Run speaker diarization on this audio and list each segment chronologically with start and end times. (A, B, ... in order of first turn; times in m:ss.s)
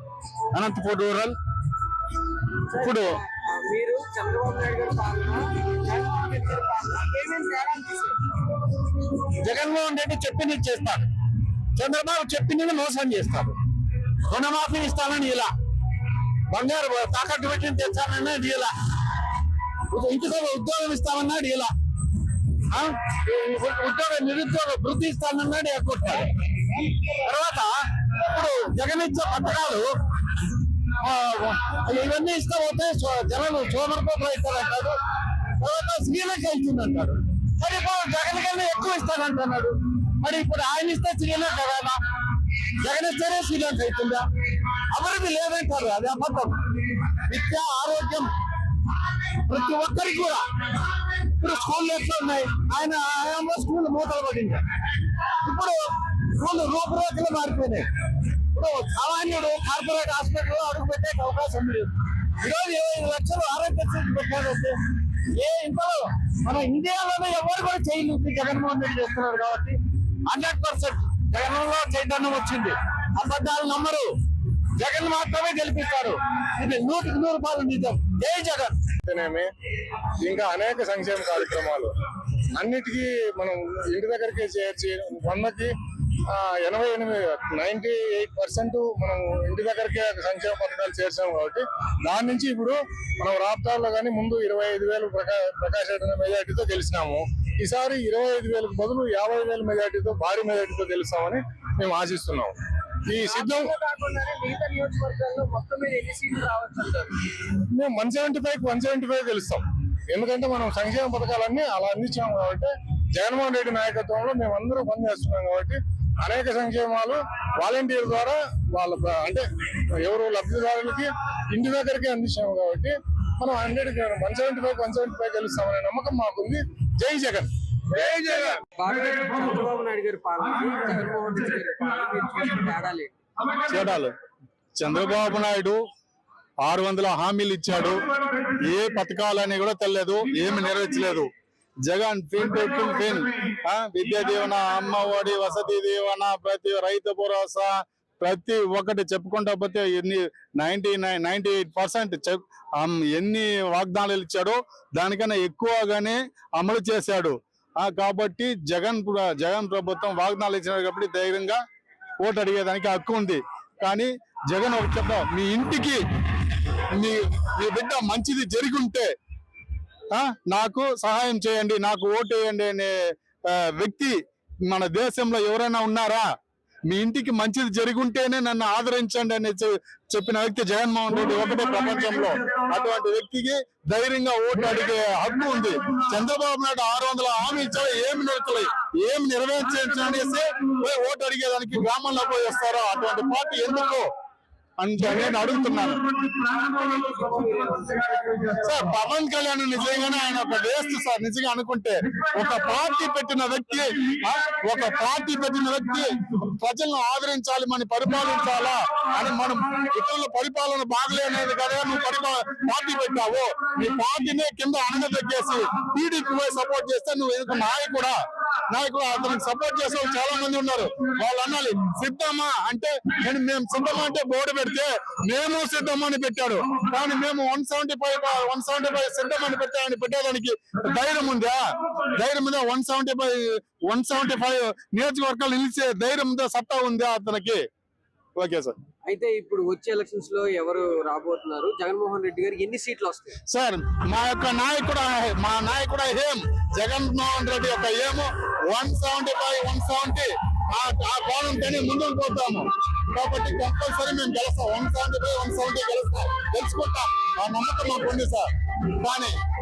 0:02.7-0:08.2 A
0:09.4-0:11.1 B
0:11.7-0:13.5 B
0:14.3-0:15.5 B
0:16.5-0:18.5 B
0:19.9-0:21.7 B
0:22.7-0:26.2 B
0:27.1-0:27.7 B
0:28.2-0:29.9 B
0:31.0-0:35.0 B
0:35.6-0:42.0 B
0:42.8-0:44.3 B
0:44.9-0:46.6 B
0:47.2-0:48.3 B
0:49.4-0:50.5 B
0:51.4-0:54.6 B
0:55.4-0:57.9 B
0:58.5-1:04.8 B
1:05.4-1:14.1 B
1:14.8-1:18.7 B
1:19.0-1:19.5 C
1:20.2-1:21.9 C
1:22.6-1:25.7 C
1:26.3-1:42.5 C
1:43.1-1:43.7 C
1:43.2-1:47.1 A
1:47.7-1:59.4 C
2:00.0-2:07.5 C
2:08.0-2:13.2 A
2:13.6-2:14.1 D
2:14.8-2:15.8 D
2:16.6-2:18.0 D
2:18.6-2:21.3 D
2:21.8-2:41.6 D
2:42.2-2:46.0 D
2:46.9-2:49.0 D
2:50.1-2:52.9 D
2:53.5-2:54.2 D
2:54.7-2:56.2 D
2:56.9-3:14.1 D
3:14.8-3:16.0 D
3:16.8-3:18.1 A
3:18.4-3:38.2 D
3:38.7-3:51.6 D
3:52.1-3:57.6 D
3:58.4-3:58.8 D
3:59.1-4:03.4 A
4:03.5-4:19.3 D